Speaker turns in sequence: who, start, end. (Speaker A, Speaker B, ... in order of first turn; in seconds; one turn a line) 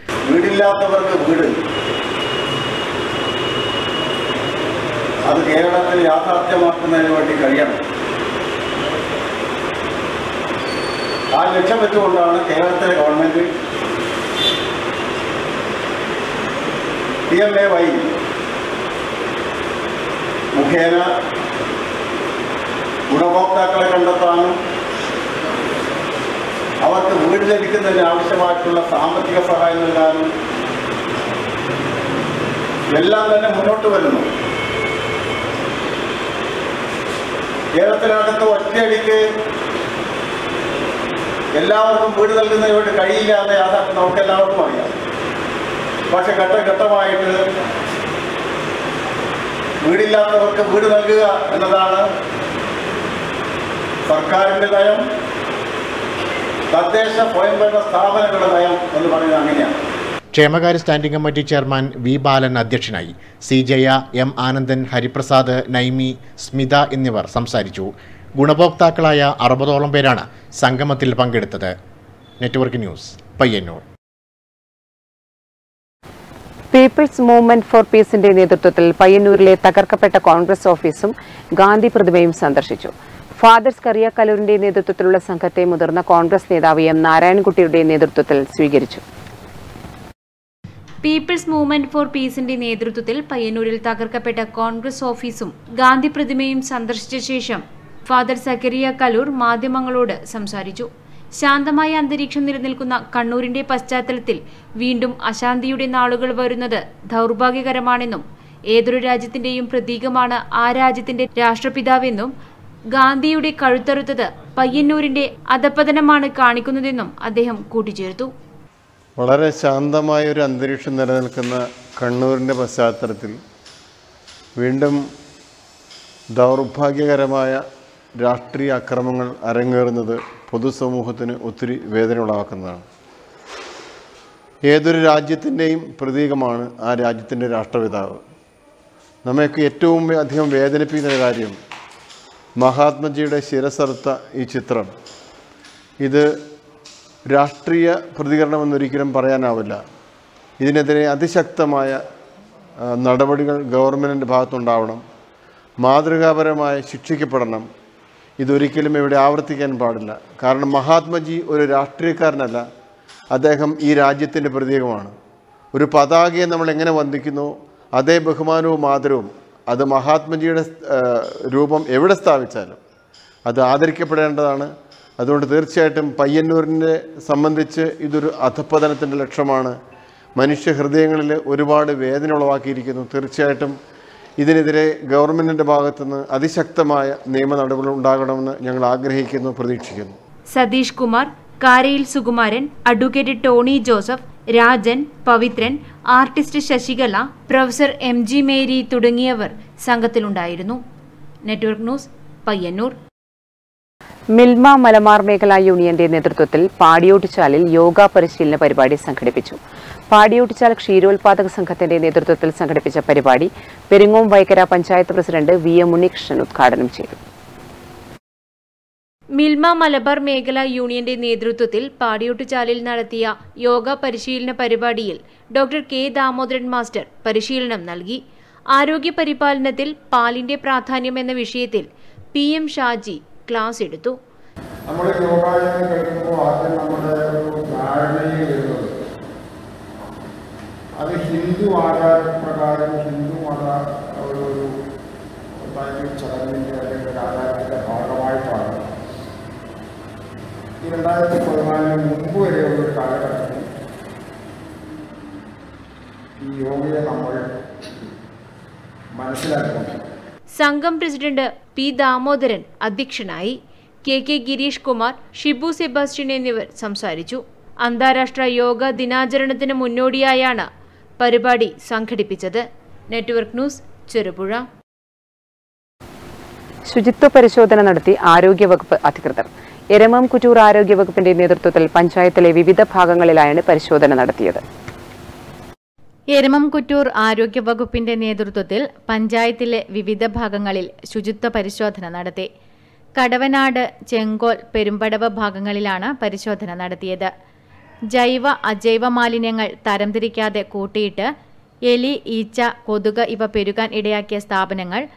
Speaker A: 0.3-1.5
Speaker A: 5.3-7.8
Speaker A: 11.3-13.5
Speaker A: 17.3-18.0
Speaker A: 20.6-21.1
Speaker A: 23.1-24.5
Speaker A: 26.8-30.2
Speaker A: 32.9-34.2
Speaker A: 37.8-39.2
Speaker A: 41.5-44.9
Speaker A: 46.1-47.4
Speaker A: 49.8-52.0
Speaker A: 54.1-55.0
Speaker A: 56.7-59.7
Speaker B: 60.3-71.7
Speaker B: 72.4-73.8
Speaker C: 76.7-89.0
Speaker D: 91.0-112.3
Speaker D: 112.9-118.3
Speaker E: 119.2-123.3
Speaker E: 124.6-125.0
Speaker E: 126.3-127.6
Speaker E: 128.2-132.8
Speaker E: 134.7-138.2
Speaker E: 139.2-141.6
Speaker E: 142.6-144.9
Speaker E: 147.3-149.8
Speaker E: 150.6-152.0
Speaker E: 152.9-155.0
Speaker E: 155.8-157.7
Speaker E: 158.4-162.6
Speaker E: 163.3-165.1
Speaker E: 165.7-172.8
Speaker E: 173.5-174.7
Speaker E: 175.2-179.8
Speaker E: 180.4-183.7
Speaker E: 184.4-190.2
Speaker D: 190.5-200.8
Speaker D: 201.4-202.9
Speaker C: 204.3-209.6
Speaker C: 210.1-217.2
Speaker D: 219.3-228.2
Speaker D: 228.7-234.2
Speaker F: 234.9-238.9
Speaker F: 241.0-244.7
Speaker F: 245.7-248.9
Speaker F: 250.8-253.6
Speaker F: 256.4-257.4
Speaker F: 259.2-260.0
Speaker D: 260.6-270.7
Speaker D: 271.2-274.6
Speaker C: 276.9-284.6
Speaker G: 286.3-292.5
Speaker G: 293.1-297.3
Speaker G: 298.1-301.3
Speaker G: 301.9-305.0